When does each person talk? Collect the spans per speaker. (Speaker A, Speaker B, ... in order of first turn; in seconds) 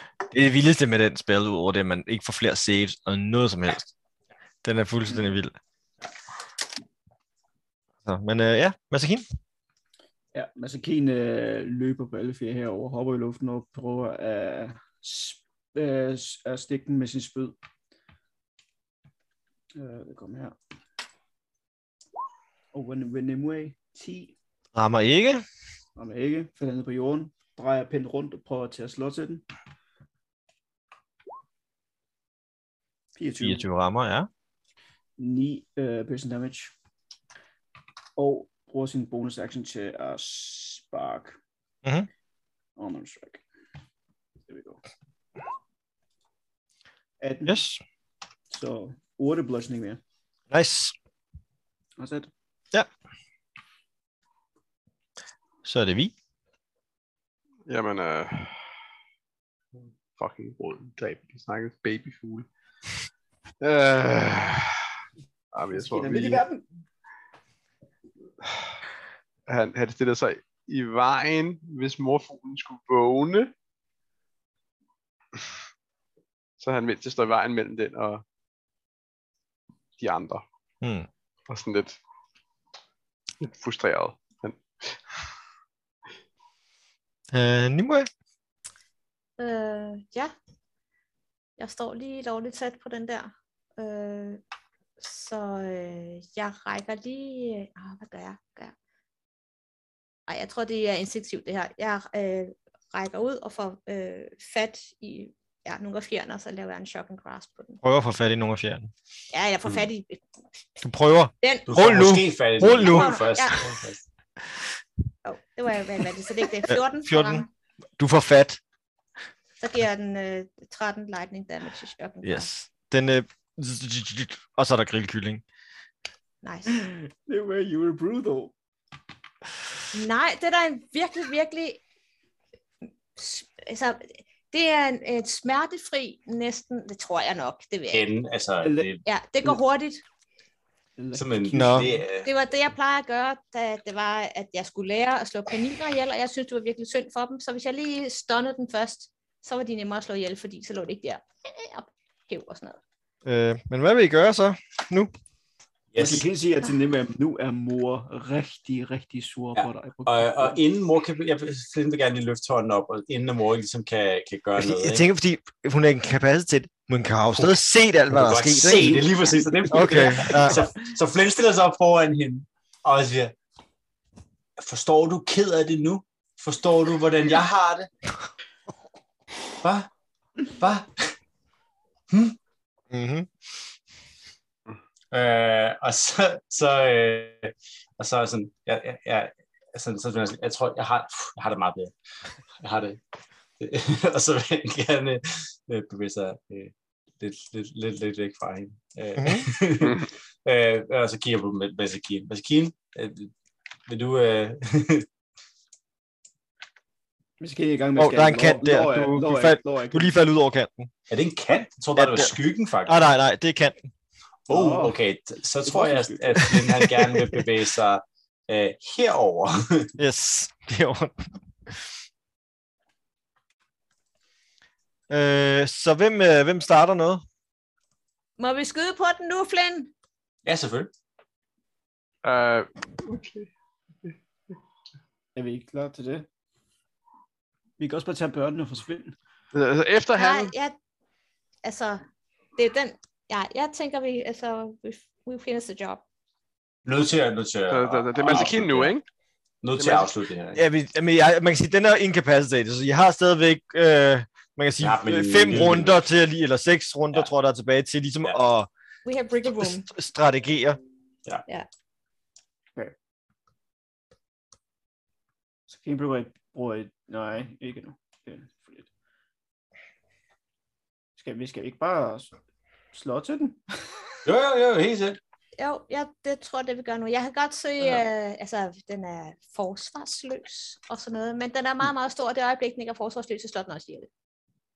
Speaker A: 0.3-3.9, 4.6-5.5, 8.1-9.2, 24.7-25.4, 33.4-34.3, 41.8-42.1, 47.5-47.8, 50.5-50.9, 55.6-56.1, 80.8-81.1, 87.3-88.1, 107.8-108.9, 110.8-113.2, 116.7-117.4, 118.0-118.6, 122.2-125.4, 141.5-141.9, 153.2-155.1, 164.6-169.2, 169.7-170.7, 182.9-183.3, 199.2-199.5, 208.0-210.9, 211.9-213.9, 216.6-217.1, 220.0-221.8, 225.1-227.2, 250.6-258.7, 259.4-260.8
Speaker B: 5.1-5.3, 10.3-17.5, 19.7-20.6, 22.7-24.3, 25.9-29.4, 33.1-33.6, 35.2-36.7, 38.1-41.4, 42.8-43.4, 44.4-44.8, 47.2-47.6, 48.5-50.0, 52.0-52.3, 65.7-66.6, 126.7-128.5, 138.6-138.9, 141.0-142.0, 156.0-160.6, 207.4-210.1, 214.5-215.0, 215.6-216.6, 235.3-236.3, 237.8-239.2, 265.7-268.9, 271.1-272.3, 272.9-274.2
Speaker C: 57.7-58.6, 59.8-62.5, 63.6-64.9, 65.5-66.4, 68.4-68.7, 69.5-73.5, 76.6-78.2, 80.0-80.4, 81.5-82.0, 83.4-85.0, 232.2-233.5, 239.5-240.5, 247.7-249.0, 249.8-250.1
Speaker D: 89.4-90.3, 91.6-94.4, 95.0-98.7, 100.3-107.8, 109.3-110.2, 111.4-111.7, 112.8-113.6, 115.2-117.5, 119.6-122.5, 126.4-126.8, 129.9-131.8, 133.1-138.1, 139.0-140.0, 142.2-152.8, 228.4-229.9, 240.1-240.7, 241.6-242.0, 242.6-246.0, 259.1-259.9, 275.6-284.1
Speaker E: 111.7-114.0, 137.9-139.0, 141.1-142.3, 155.9-156.2, 159.6-165.1, 168.1-173.3, 174.6-177.9, 179.6-179.9, 180.5-181.1, 182.1-182.3, 185.1-191.9, 192.6-193.0, 193.6-203.3, 203.9-205.1, 211.1-213.0, 214.5-219.9, 230.4-230.9, 246.8-248.9, 249.6-250.6, 254.8-256.0, 274.2-275.2